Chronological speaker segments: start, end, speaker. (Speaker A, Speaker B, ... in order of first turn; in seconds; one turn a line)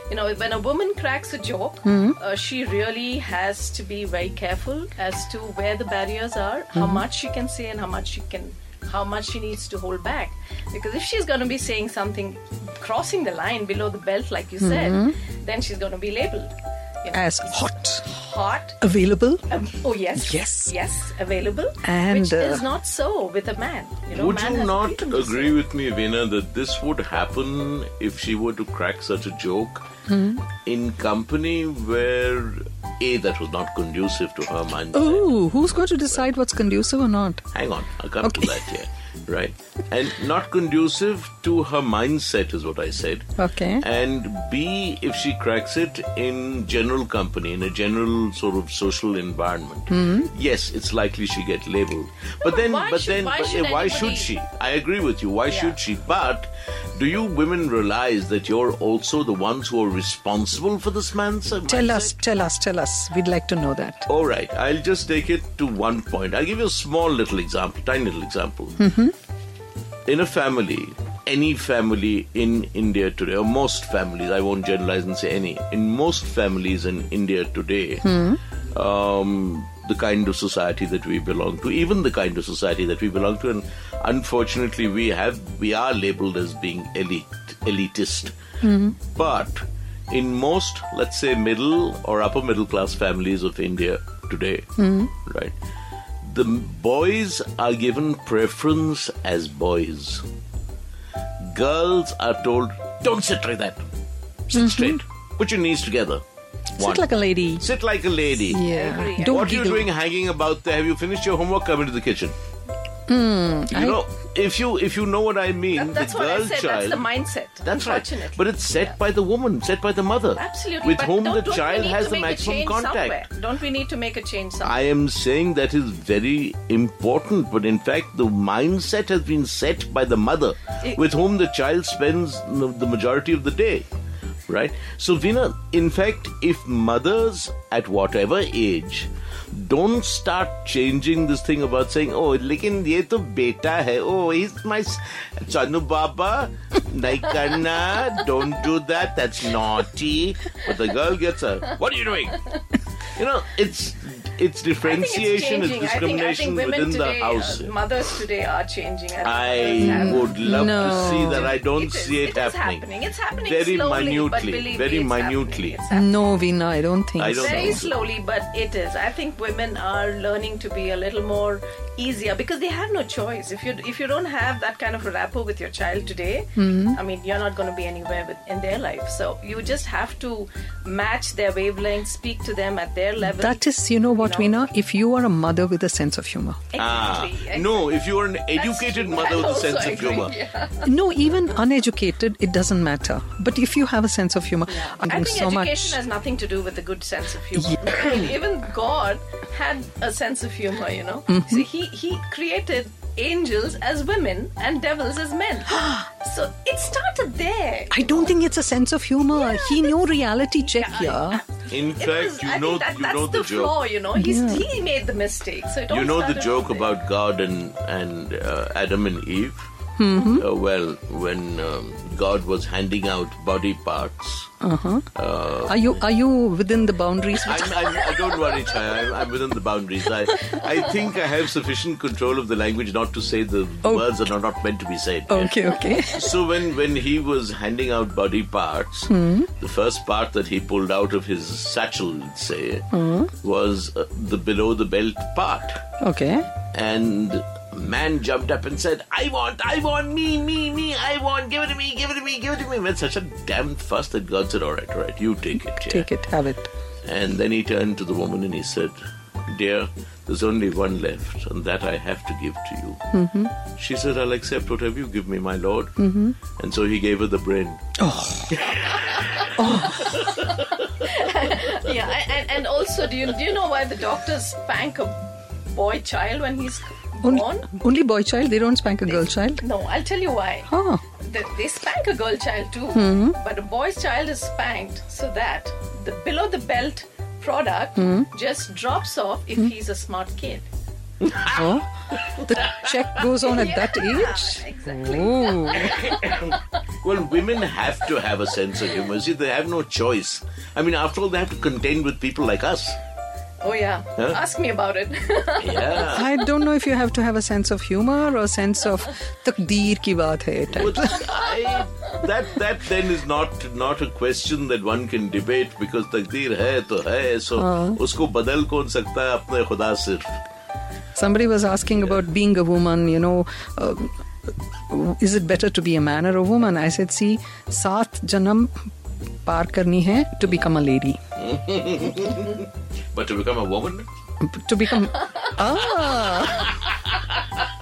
Speaker A: 0.1-17.2
Speaker B: 1.9-2.2
Speaker B: 6.7-7.0
Speaker B: 14.6-15.2
Speaker B: 17.1-18.1
Speaker A: 18.0-18.8
Speaker B: 18.8-19.4
Speaker A: 19.5-25.6
Speaker B: 20.1-20.8
Speaker B: 21.8-22.7
Speaker C: 24.1-29.9
Speaker B: 30.1-30.4
Speaker C: 30.6-36.2
Speaker B: 34.9-37.5
Speaker C: 37.5-62.2
Speaker B: 38.2-38.6
Speaker B: 43.4-43.9
Speaker B: 49.9-50.3
Speaker A: 52.4-54.3
Speaker A: 55.5-55.8
Speaker B: 61.7-64.1
Speaker C: 64.1-68.8
Speaker B: 68.8-69.1
Speaker C: 70.1-78.2
Speaker B: 78.0-78.4
Speaker C: 78.7-88.4
Speaker B: 88.6-89.0
Speaker C: 89.0-95.5
Speaker B: 94.8-95.1
Speaker C: 96.2-100.2
Speaker C: 101.4-103.8
Speaker C: 104.5-106.2
Speaker B: 104.5-105.0
Speaker C: 106.8-107.1
Speaker B: 106.8-107.7
Speaker C: 107.6-112.3
Speaker B: 108.5-109.9
Speaker A: 108.6-109.5
Speaker B: 113.1-114.0
Speaker C: 113.7-117.1
Speaker A: 115.7-119.0
Speaker C: 117.7-123.2
Speaker A: 120.4-124.8
Speaker C: 124.6-133.9
Speaker C: 134.5-157.7
Speaker A: 154.8-160.3
Speaker C: 159.2-165.8
Speaker B: 159.8-161.5
Speaker A: 160.9-166.1
Speaker B: 165.9-167.8
Speaker C: 167.2-168.0
Speaker A: 167.4-183.7
Speaker B: 176.6-177.0
Speaker B: 183.2-186.6
Speaker A: 184.2-184.6
Speaker A: 186.7-187.9
Speaker C: 186.8-190.4
Speaker A: 188.6-190.9
Speaker B: 190.8-196.0
Speaker A: 194.7-208.3
Speaker B: 197.6-198.1
Speaker B: 201.3-201.7
Speaker B: 205.7-206.1
Speaker B: 207.9-211.4
Speaker A: 209.3-210.0
Speaker A: 210.7-216.9
Speaker C: 211.7-213.9
Speaker B: 214.2-214.7
Speaker C: 215.9-219.7
Speaker B: 220.0-220.5
Speaker C: 220.3-224.5
Speaker B: 224.6-225.1
Speaker C: 225.2-225.9
Speaker B: 225.7-228.1
Speaker C: 227.4-245.8
Speaker B: 233.8-234.2
Speaker B: 235.3-236.4
Speaker B: 239.1-239.5
Speaker B: 242.9-243.3
Speaker B: 246.0-246.5
Speaker C: 246.7-256.1
Speaker B: 255.6-256.7
Speaker C: 257.1-263.0
Speaker B: 263.1-263.5
Speaker C: 263.8-266.0
Speaker B: 266.0-266.4
Speaker C: 266.6-267.9
Speaker B: 268.0-268.8
Speaker C: 268.5-270.1
Speaker A: 268.8-277.7
Speaker B: 269.6-270.2
Speaker B: 277.2-279.6
Speaker A: 279.1-290.7
Speaker B: 280.7-281.0
Speaker B: 282.9-283.4
Speaker B: 288.0-288.3
Speaker C: 291.3-291.5
Speaker B: 291.5-296.0
Speaker A: 293.4-296.5
Speaker C: 296.0-303.0
Speaker A: 303.6-306.2
Speaker C: 305.6-306.3
Speaker B: 306.1-311.3
Speaker C: 310.8-320.4
Speaker B: 317.6-318.0
Speaker B: 321.1-324.1
Speaker B: 324.9-328.9
Speaker B: 329.4-331.2
Speaker C: 331.4-334.1
Speaker B: 334.4-336.8